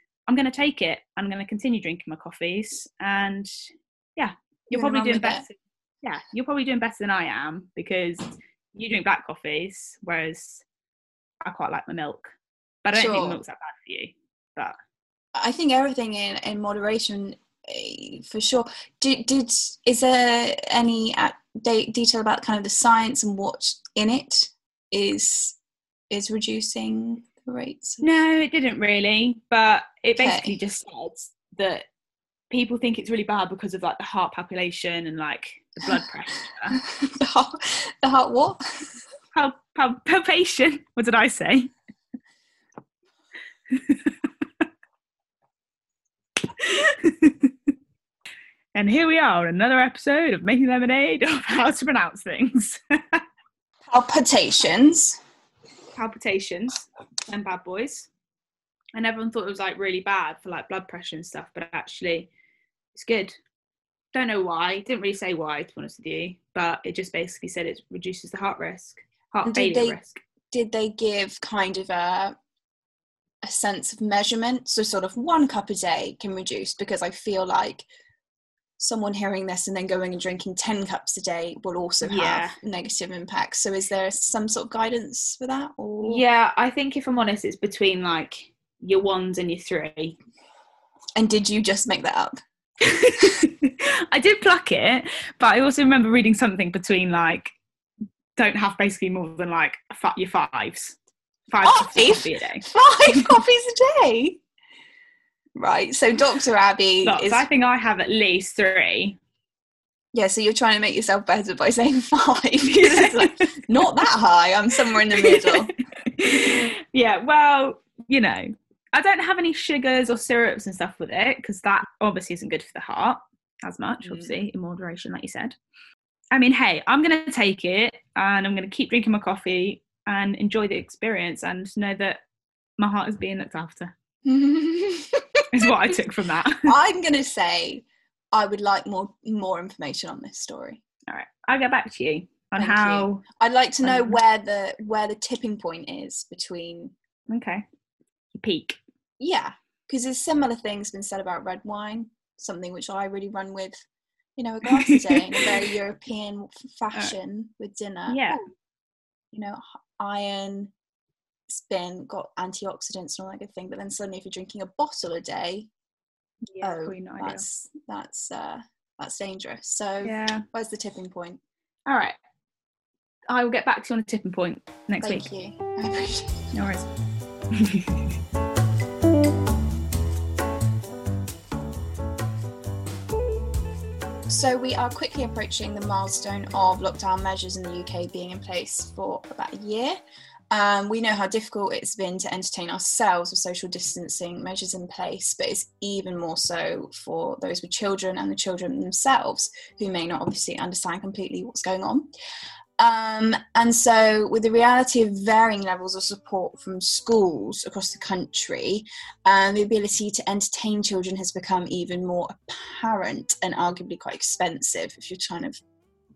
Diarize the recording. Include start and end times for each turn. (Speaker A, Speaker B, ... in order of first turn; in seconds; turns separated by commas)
Speaker A: 0.3-3.5, Speaker A: 4.2-10.6, Speaker B: 4.7-5.4, Speaker A: 11.4-14.7, Speaker B: 12.9-13.4, Speaker B: 15.3-25.6, Speaker B: 26.1-28.0, Speaker A: 28.0-31.9, Speaker B: 30.2-30.5, Speaker A: 32.5-36.8, Speaker B: 36.7-38.6, Speaker A: 39.3-41.7, Speaker A: 43.7-44.1, Speaker A: 46.6-47.5, Speaker A: 48.7-53.2, Speaker B: 53.9-55.2, Speaker A: 55.9-58.1, Speaker A: 58.9-62.3, Speaker A: 62.9-63.3, Speaker A: 64.1-70.2, Speaker B: 69.4-70.0, Speaker B: 70.5-72.4, Speaker B: 73.4-77.9, Speaker B: 78.8-86.2, Speaker A: 82.0-82.5, Speaker A: 86.0-90.2, Speaker B: 91.2-92.4, Speaker A: 92.8-97.5, Speaker A: 98.3-103.3, Speaker B: 101.6-104.4, Speaker B: 105.5-107.4, Speaker A: 107.0-109.2, Speaker B: 110.1-115.7, Speaker A: 112.6-113.6, Speaker A: 115.1-125.6, Speaker B: 124.0-124.4, Speaker A: 126.3-132.2, Speaker A: 132.8-133.9, Speaker B: 134.2-136.0, Speaker A: 135.5-136.7, Speaker B: 136.6-140.8, Speaker A: 141.1-143.2, Speaker B: 142.6-146.9, Speaker A: 143.8-144.2, Speaker A: 147.3-147.6, Speaker A: 148.3-148.8, Speaker B: 149.2-153.8, Speaker B: 154.4-158.4, Speaker A: 154.8-155.5, Speaker A: 158.1-158.4, Speaker B: 159.3-160.7, Speaker B: 161.5-165.7, Speaker A: 166.5-167.4, Speaker B: 166.6-171.4, Speaker A: 170.0-170.4, Speaker A: 171.9-172.2, Speaker A: 173.3-175.3, Speaker B: 175.0-176.5, Speaker A: 176.5-176.9, Speaker A: 177.5-178.1, Speaker B: 184.3-190.0, Speaker B: 190.5-202.1, Speaker B: 202.8-215.5